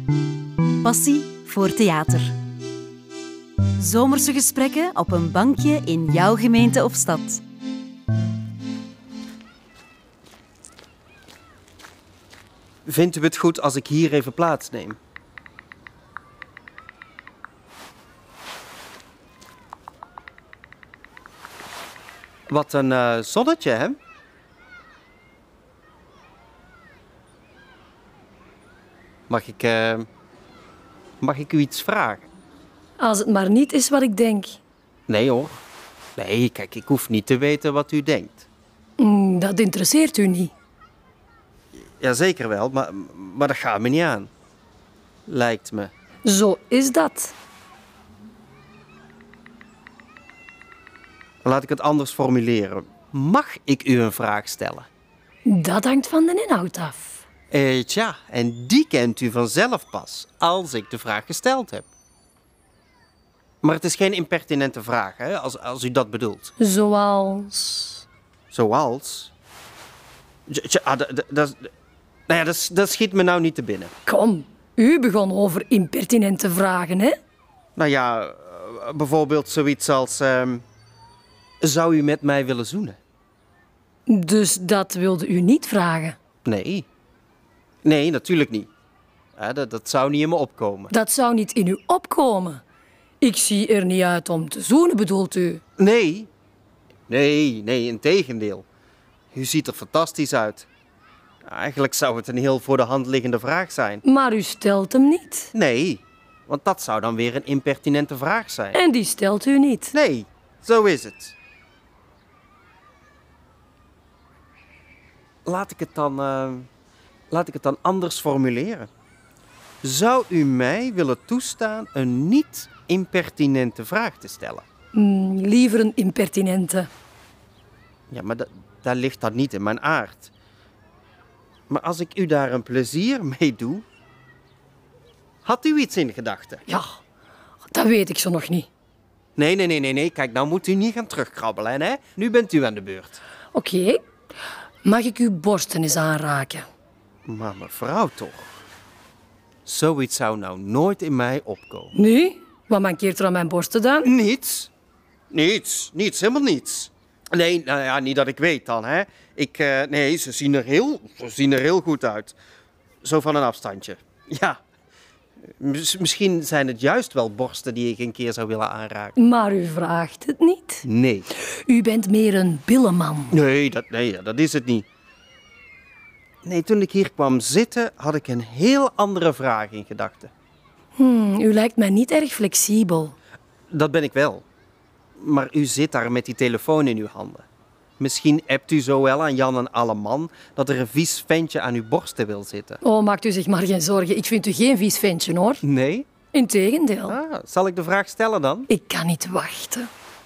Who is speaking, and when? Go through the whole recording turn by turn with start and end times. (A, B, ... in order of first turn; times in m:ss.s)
0:00.8-0:02.4 A
0:03.8-0:07.4 A
0:12.9-0:15.0 B
0:22.5-0:24.0 B
0:29.3-0:30.1 B
0:31.2-0:32.3 B
0:33.0-0:34.6 C
0:35.1-0:35.6 B
0:36.2-0:38.5 B
0:39.0-0:40.5 C
0:41.8-0:44.3 B
0:45.3-0:45.9 B
0:46.2-0:47.4 C
0:51.4-0:54.9 B
0:55.5-0:57.3 C
0:57.5-1:01.9 B
1:03.6-1:06.5 B
1:06.6-1:08.0 C
1:08.5-1:09.3 B
1:10.5-1:11.7 B
1:12.3-1:13.9 B
1:14.1-1:17.2 C
1:17.8-1:20.6 B
1:21.6-1:23.0 B
1:24.1-1:26.2 C
1:26.4-1:26.9 B
1:27.8-1:28.7 B
1:29.4-1:30.9 B
1:30.9-1:32.6 C
1:33.2-1:35.6 C
1:35.8-1:36.3 B
1:37.1-1:38.6 B
1:39.3-1:40.7 B
1:41.4-1:44.0 B
1:44.0-1:45.5 C
1:45.5-1:48.8 B
1:48.7-1:49.9 C
1:49.9-1:51.4 B
1:55.4-1:56.7 B
1:57.3-1:58.9 B
1:59.8-2:04.6 B
2:04.9-2:06.9 C
2:08.1-2:10.3 B
2:11.7-2:13.8 B
2:15.4-2:16.6 B
2:17.7-2:18.7 C
2:19.4-2:23.2 B
2:23.5-2:24.0 C
2:24.8-2:26.6 C
2:27.3-2:28.5 B
2:29.6-2:31.9 B
2:31.9-2:34.1 C
2:34.0-2:34.7 B
2:35.3-2:42.4 B
2:43.0-2:44.6 B
2:45.6-2:49.2 B
2:49.2-2:50.9 C
2:50.8-2:51.3 B
2:51.4-2:53.4 C
2:53.3-2:54.9 B
2:56.4-3:00.3 B
3:01.0-3:03.2 C
3:03.7-3:04.5 B
3:05.2-3:07.5 B
3:08.0-3:12.8 B
3:12.8-3:15.6 C
3:15.6-3:16.1 B
3:16.3-3:17.2 C
3:17.1-3:18.7 B
3:18.7-3:19.9 C